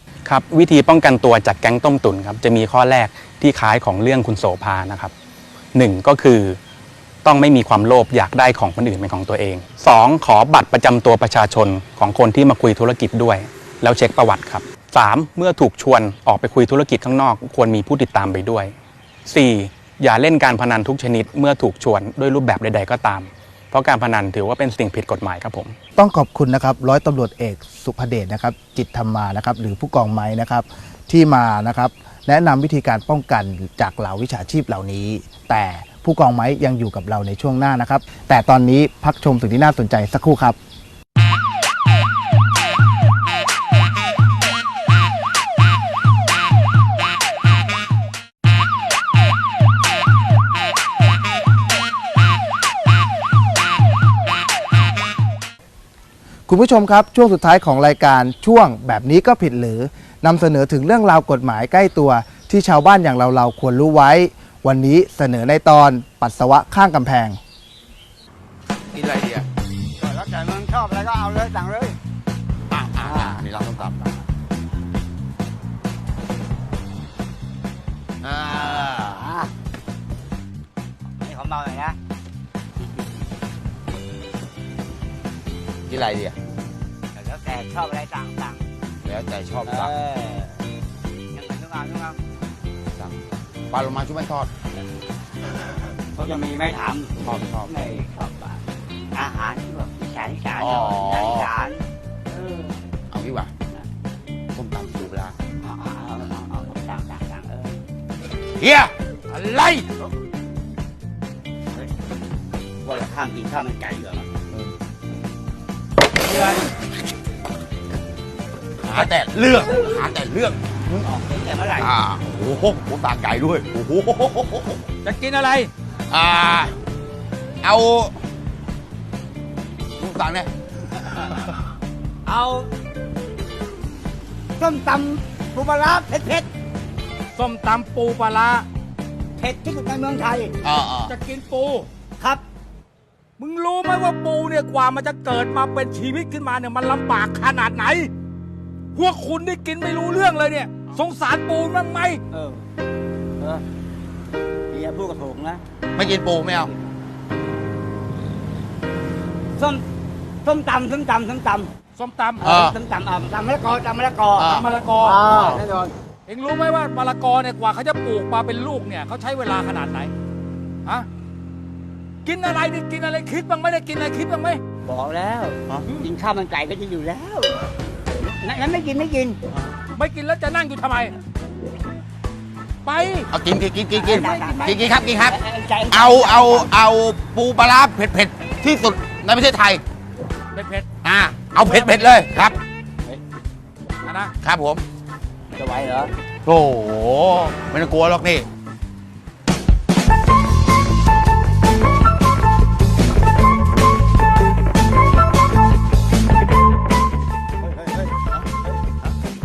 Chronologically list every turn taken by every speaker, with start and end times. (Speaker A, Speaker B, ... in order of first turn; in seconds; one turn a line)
Speaker A: 0.2-5.1
Speaker A: 5.7-6.6
Speaker A: 7.2-18.7
Speaker A: 19.2-25.7
Speaker B: 25.9-40.6
Speaker B: 56.5-67.4
Speaker C: 68.9-69.5
Speaker D: 70.0-72.0
Speaker C: 72.7-74.0
Speaker D: 73.0-73.4
Speaker C: 78.2-78.9
Speaker D: 78.3-79.5
Speaker D: 81.2-82.0
Speaker C: 85.9-86.3
Speaker D: 87.1-88.6
Speaker C: 89.0-89.9
Speaker D: 89.7-90.5
Speaker D: 91.3-92.2
Speaker C: 93.7-94.5
Speaker D: 96.1-102.7
Speaker C: 97.2-97.7
Speaker C: 100.6-101.5
Speaker C: 103.1-103.5
Speaker C: 104.5-105.4
Speaker D: 105.6-107.8
Speaker C: 108.6-108.9
Speaker E: 109.3-109.8
Speaker D: 112.8-114.3
Speaker E: 116.3-116.6
Speaker C: 118.8-121.0
Speaker D: 121.0-121.9
Speaker C: 121.8-124.8
Speaker E: 125.0-125.7
Speaker C: 126.1-126.7
Speaker C: 127.6-128.1
Speaker C: 130.0-130.5
Speaker D: 132.3-132.6
Speaker D: 134.6-136.5
Speaker E: 137.3-138.6
Speaker D: 139.4-140.5
Speaker C: 140.6-141.1
Speaker E: 141.1-141.8
Speaker E: 143.4-148.1
Speaker E: 148.9-152.2
Speaker D: 152.3-152.6
Speaker D: 154.7-155.6
Speaker C: 155.9-156.7
Speaker D: 159.6-159.8
Speaker D: 160.4-161.7
Speaker E: 162.0-162.5
Speaker D: 162.4-165.9
Speaker C: 162.4-162.8
Speaker C: 164.3-164.7
Speaker E: 164.5-165.2
Speaker C: 165.3-165.6
Speaker E: 166.3-170.1
Speaker E: 172.2-174.6
Speaker D: 174.8-177.6
Speaker D: 178.2-179.4
Speaker E: 179.9-181.1
Speaker E: 182.8-183.3
Speaker C: 183.3-185.3
Speaker D: 183.9-186.7
Speaker E: 184.2-184.5
Speaker C: 185.9-189.8
Speaker E: 190.5-190.8
Speaker C: 191.0-192.6
Speaker E: 194.0-194.3
Speaker C: 194.4-194.8
Speaker D: 195.6-196.1
Speaker C: 196.4-198.5
Speaker D: 207.6-208.1